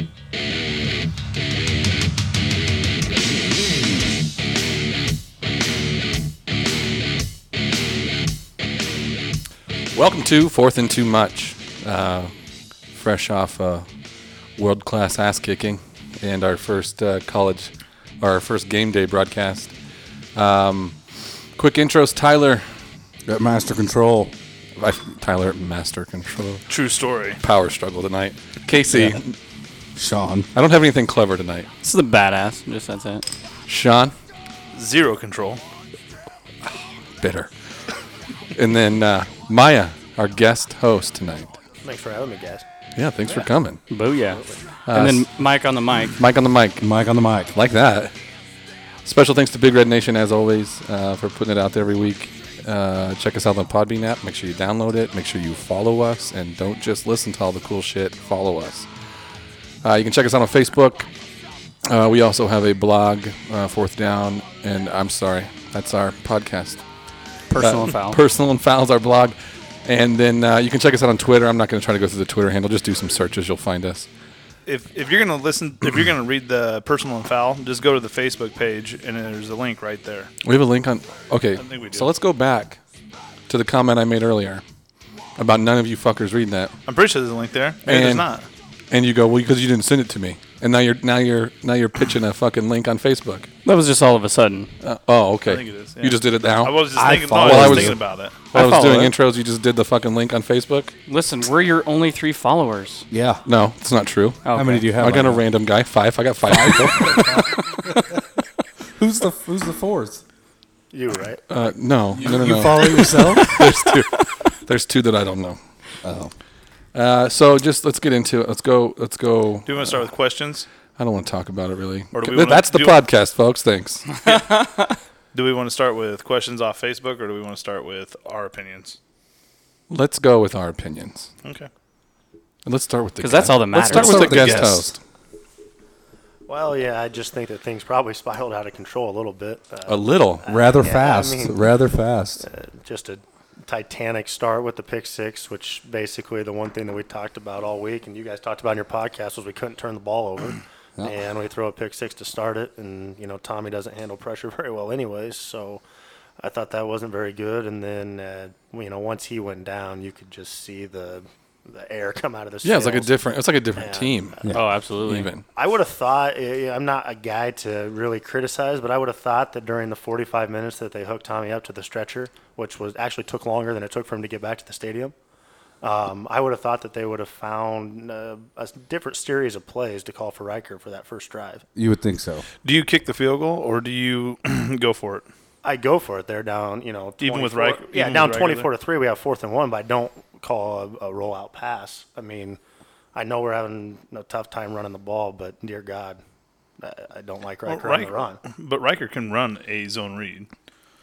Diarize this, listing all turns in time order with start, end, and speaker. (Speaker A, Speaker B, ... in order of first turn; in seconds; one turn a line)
Speaker A: 9.9-12.3
Speaker A: 12.9-13.8
Speaker A: 14.6-19.7
Speaker A: 20.4-20.9
Speaker A: 21.6-22.7
Speaker B: 23.3-24.3
Speaker A: 24.8-26.6
Speaker C: 26.7-27.4
Speaker A: 27.4-29.4
Speaker B: 28.9-29.2
Speaker B: 29.9-30.5
Speaker A: 30.5-31.7
Speaker D: 31.8-33.3
Speaker A: 33.7-34.1
Speaker C: 34.7-35.6
Speaker A: 37.2-37.5
Speaker A: 38.5-41.5
Speaker E: 41.8-42.6
Speaker A: 43.0-43.8
Speaker D: 43.9-46.2
Speaker E: 44.3-44.6
Speaker A: 44.9-45.3
Speaker A: 46.1-46.9
Speaker B: 46.8-47.6
Speaker A: 47.5-48.1
Speaker A: 49.0-58.9
Speaker A: 59.8-61.1
Speaker A: 61.8-66.8
Speaker D: 67.5-68.2
Speaker A: 67.5-74.1
Speaker C: 74.7-80.3
Speaker A: 80.4-82.8
Speaker C: 81.6-82.1
Speaker A: 83.5-84.6
Speaker A: 85.4-86.7
Speaker C: 86.9-88.5
Speaker A: 87.8-88.2
Speaker A: 88.9-93.5
Speaker D: 93.6-94.7
Speaker A: 94.8-100.9
Speaker C: 95.4-98.4
Speaker B: 96.9-98.0
Speaker D: 98.5-99.1
Speaker D: 101.1-103.1
Speaker B: 103.1-103.4
Speaker A: 103.4-107.6
Speaker D: 104.4-104.9
Speaker B: 104.5-105.5
Speaker B: 106.5-108.1
Speaker D: 107.7-108.0
Speaker B: 109.0-110.2
Speaker E: 110.9-111.4
Speaker A: 111.5-115.6
Speaker B: 112.1-113.7
Speaker B: 116.0-116.3
Speaker A: 116.9-119.9
Speaker C: 119.7-120.7
Speaker A: 121.0-124.0
Speaker C: 122.1-123.0
Speaker D: 124.2-125.0
Speaker C: 124.2-124.5
Speaker C: 125.3-129.0
Speaker A: 129.9-131.3
Speaker A: 132.6-135.0
Speaker D: 133.2-134.5
Speaker B: 133.9-134.8
Speaker C: 134.0-134.8
Speaker E: 136.5-141.6
Speaker A: 139.8-140.5
Speaker B: 140.4-142.4
Speaker E: 142.4-155.8
Speaker E: 156.4-164.7
Speaker A: 162.6-164.4
Speaker D: 164.5-165.3
Speaker A: 165.0-165.4
Speaker E: 165.5-175.1
Speaker E: 175.8-181.6
Speaker B: 181.7-182.4
Speaker C: 182.6-185.2
Speaker E: 185.6-192.6
Speaker C: 187.2-188.7
Speaker E: 193.1-196.2
Speaker E: 196.8-198.4
Speaker C: 197.7-200.5